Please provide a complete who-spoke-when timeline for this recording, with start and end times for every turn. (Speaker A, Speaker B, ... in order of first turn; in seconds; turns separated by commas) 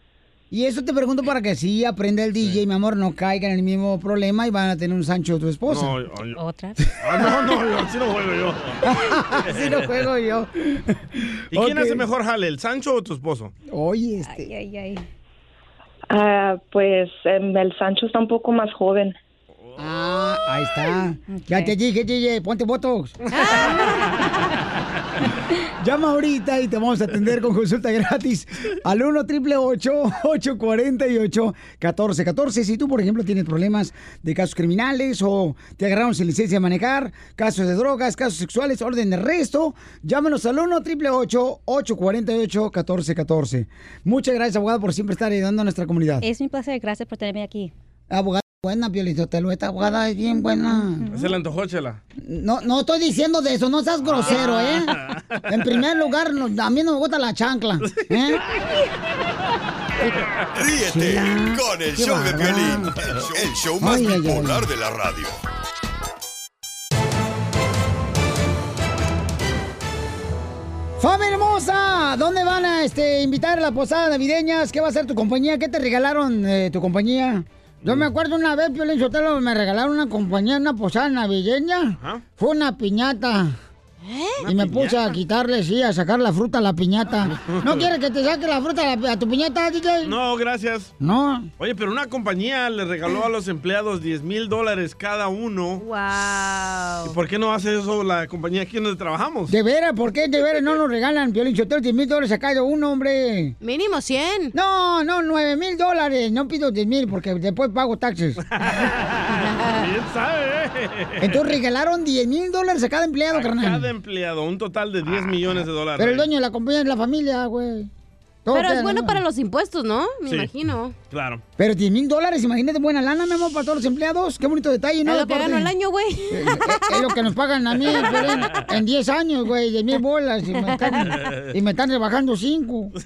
Speaker A: 0.5-5.9, Speaker B: 5.7-6.4, Speaker C: 6.3-6.8, Speaker B: 7.0-8.9, Speaker A: 8.8-12.1, Speaker B: 9.5-9.8, Speaker B: 11.5-13.5, Speaker A: 13.7-14.5, Speaker C: 14.3-15.0, Speaker D: 16.1-19.1, Speaker A: 19.8-23.2, Speaker C: 21.3-21.7, Speaker E: 23.3-23.9, Speaker A: 25.8-46.2, Speaker C: 46.2-47.7, Speaker A: 48.1-51.1, Speaker B: 51.1-52.0, Speaker A: 52.2-55.0, Speaker B: 54.0-55.4, Speaker A: 55.5-58.4, Speaker B: 57.9-58.7, Speaker F: 60.5-65.4, Speaker A: 60.9-63.0, Speaker A: 63.8-64.7, Speaker A: 71.0-83.5, Speaker E: 84.0-84.4, Speaker B: 84.4-85.1, Speaker A: 84.4-90.1, Speaker B: 87.3-87.9, Speaker B: 90.0-90.9, Speaker A: 91.0-91.5, Speaker B: 91.6-95.8, Speaker E: 95.8-97.2, Speaker B: 97.0-99.5, Speaker A: 99.5-103.5, Speaker E: 103.6-104.5, Speaker A: 104.5-108.4, Speaker B: 108.5-109.2, Speaker E: 109.3-109.9, Speaker B: 109.8-111.4, Speaker A: 111.2-113.9, Speaker B: 113.3-116.3, Speaker A: 116.0-117.9, Speaker A: 118.5-119.2, Speaker E: 118.5-121.0, Speaker B: 120.2-120.5, Speaker B: 121.1-121.4, Speaker A: 121.6-125.7, Speaker E: 125.0-127.1, Speaker A: 126.3-132.9, Speaker B: 127.8-128.6, Speaker E: 130.6-131.2, Speaker B: 131.2-131.5